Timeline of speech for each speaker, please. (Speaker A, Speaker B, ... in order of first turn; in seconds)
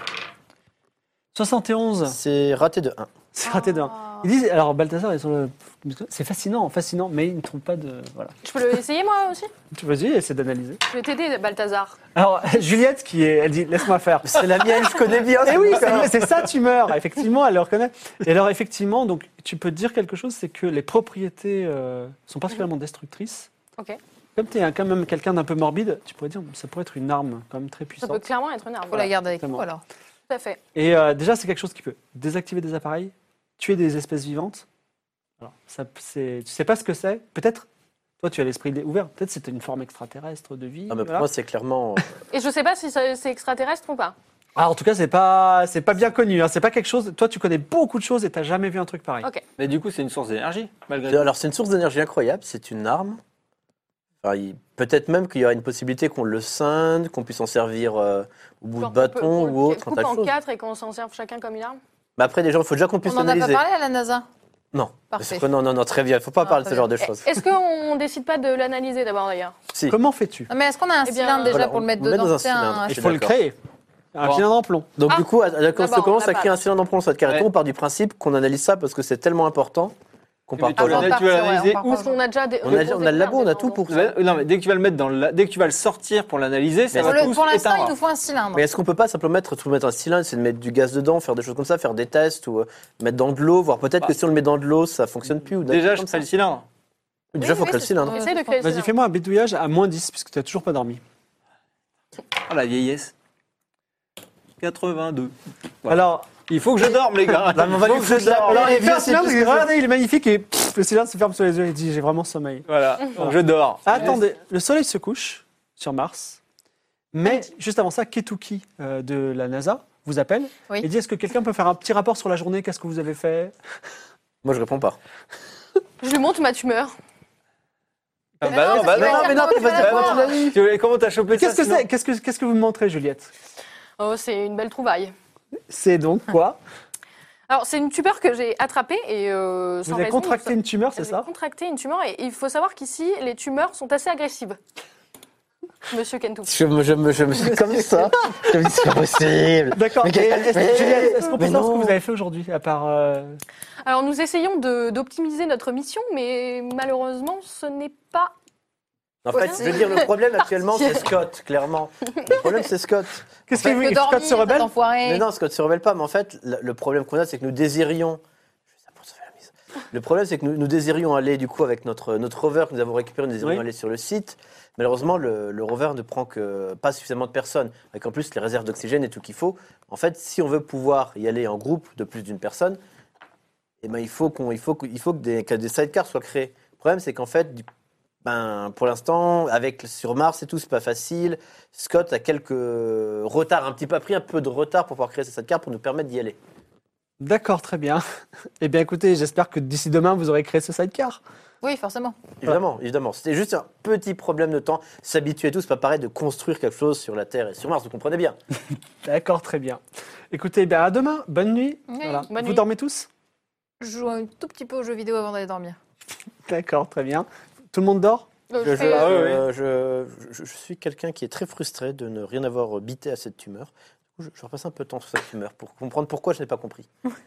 Speaker A: 1.3-2.2, 3.3-8.3, 9.7-10.8, 12.1-14.7, 15.4-23.5, 24.3-28.2, 29.3-29.6, 30.7-34.6, 35.4-37.7, 38.2-41.3, 44.5-49.3, 69.9-70.5, 72.9-73.6, 74.1-74.9, 98.6-101.0, 105.9-106.3, 108.3-116.4, 117.1-123.5, 131.3-133.3, 135.7-136.6, 139.8-141.3, 149.7-153.4, 163.5-164.7, 197.2-198.0, 198.6-201.2, 209.0-213.1, 216.4-218.3
Speaker B: 2.1-3.1, 14.2-16.2, 40.9-42.1, 51.1-53.2, 54.2-60.3, 62.2-63.6, 64.7-67.3, 71.5-73.3, 75.0-79.9, 80.5-81.2, 82.6-84.1, 86.9-87.3, 88.5-96.2, 97.3-98.2, 107.5-109.7, 124.4-125.0, 128.5-130.6, 146.4-151.9, 159.2-163.3, 165.0-168.2, 168.8-182.8, 183.8-187.6, 188.2-196.4, 202.4-208.4, 218.6-226.9
Speaker C: 3.4-4.2, 28.9-29.8, 63.0-64.2, 65.1-65.5, 66.4-66.9, 70.5-73.1, 80.8-82.2, 87.0-88.7, 97.4-98.6, 128.5-130.4, 163.6-165.2, 201.6-202.2, 211.9-212.3, 213.8-215.8
Speaker D: 8.4-9.5, 10.9-12.0, 28.0-29.1, 30.3-30.6, 42.3-44.1, 58.8-61.8, 67.0-69.5, 71.0-71.6, 75.1-76.5, 81.8-83.9, 97.4-98.9, 126.0-126.9, 128.9-130.2, 134.0-135.1, 137.5-144.6, 145.9-146.6, 153.8-158.3, 159.3-160.1, 160.6-161.1, 162.2-162.5, 212.3-212.6, 218.5-219.3
Speaker E: 49.6-51.3, 80.6-81.8, 83.9-87.9, 95.6-96.6, 102.5-103.1, 104.6-105.3, 105.8-108.9, 112.7-114.2, 128.4-131.8, 218.7-219.5